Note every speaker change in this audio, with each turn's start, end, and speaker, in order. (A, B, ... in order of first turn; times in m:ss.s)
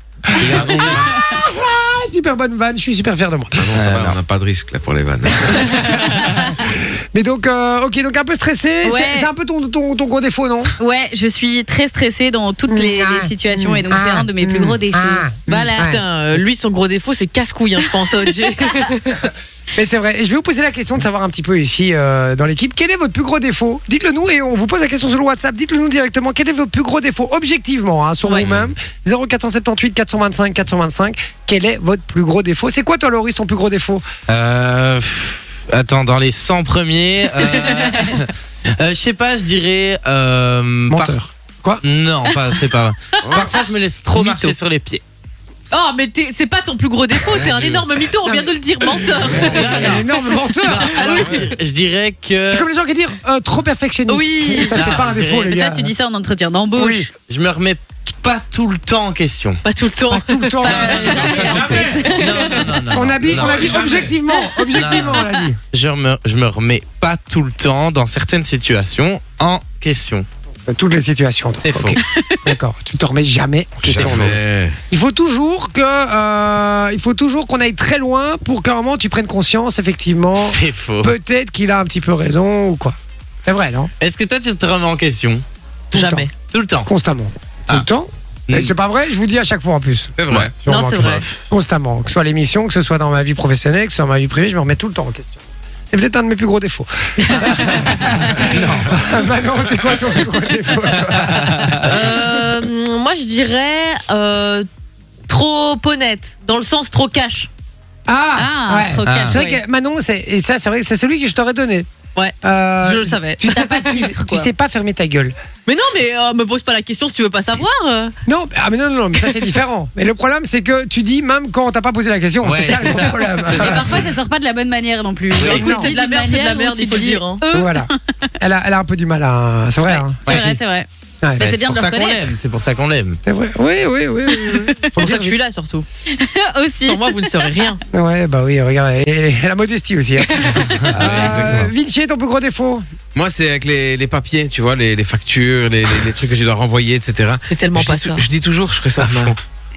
0:00.3-0:03.8 A
0:00.4-0:01.1 B
0:00.6-0:01.1 C
0:03.6-0:06.2 C
0:03.7-0:04.2 B
0:05.4-0:10.7 A
0:08.8-0:09.3 D
0:10.8-0:16.0 E
0:12.7-0:16.0 A
0:15.8-0:19.2 D
0:19.8-0:34.0 A
0:28.4-0:28.7 C
0:34.3-0:41.2 B
0:40.9-0:41.8 A
0:41.8-0:45.0 B
0:43.2-0:43.6 C
0:44.1-0:44.6 D
0:45.7-0:49.8 D
0:48.2-0:51.3 A
0:49.4-0:52.7 B
0:51.0-0:51.4 D
0:52.5-0:55.9 A
0:54.1-0:54.9 D
0:54.6-0:55.6 B
0:55.4-0:57.1 E
0:56.8-0:57.1 A
0:57.3-0:59.6 B
0:59.6-1:02.3 D
1:00.1-1:01.7 A
1:00.6-1:02.7 E
1:00.7-1:02.6 C
1:01.0-1:03.9 B
1:02.9-1:05.6 A
1:03.2-1:04.2 C
1:04.7-1:10.3 B
1:10.7-1:14.4 A
1:11.6-1:12.0 B
1:12.0-1:12.4 E
1:13.8-1:14.8 C
1:14.0-1:14.4 B
1:14.9-1:23.9 A
1:20.4-1:21.2 B
1:24.0-1:25.4 B
1:25.9-1:26.3 D
1:25.9-1:26.3 A
1:26.5-1:26.9 B
1:26.8-1:41.9 A
1:28.5-1:28.8 B
1:30.2-1:30.5 C
1:30.3-1:31.3 B
1:30.7-1:31.2 D
1:37.2-1:37.5 D
1:41.4-1:41.8 B
1:41.8-1:44.7 D
1:45.3-1:47.5 D
1:48.1-1:51.9 A
1:48.4-1:49.6 E
1:49.0-1:49.4 B
1:52.2-1:54.5 D
1:52.4-1:55.4 A
1:53.5-1:54.4 E
1:55.7-1:58.2 D
1:58.3-2:03.9 A
2:02.4-2:03.5 B
2:03.5-2:08.3 E
2:05.3-2:05.7 C
2:05.4-2:07.4 D
2:05.5-2:05.9 A
2:07.5-2:10.6 A
2:09.9-2:10.9 E
2:10.3-2:10.5 B
2:11.4-2:12.3 E
2:11.4-2:13.2 B
2:13.2-2:15.4 A
2:14.3-2:14.8 E
2:15.0-2:15.9 D
2:16.1-2:17.7 E
2:16.9-2:17.8 D
2:17.9-2:22.9 A
2:20.9-2:21.7 B
2:23.2-2:29.4 C
2:27.5-2:28.3 D
2:29.0-2:29.3 D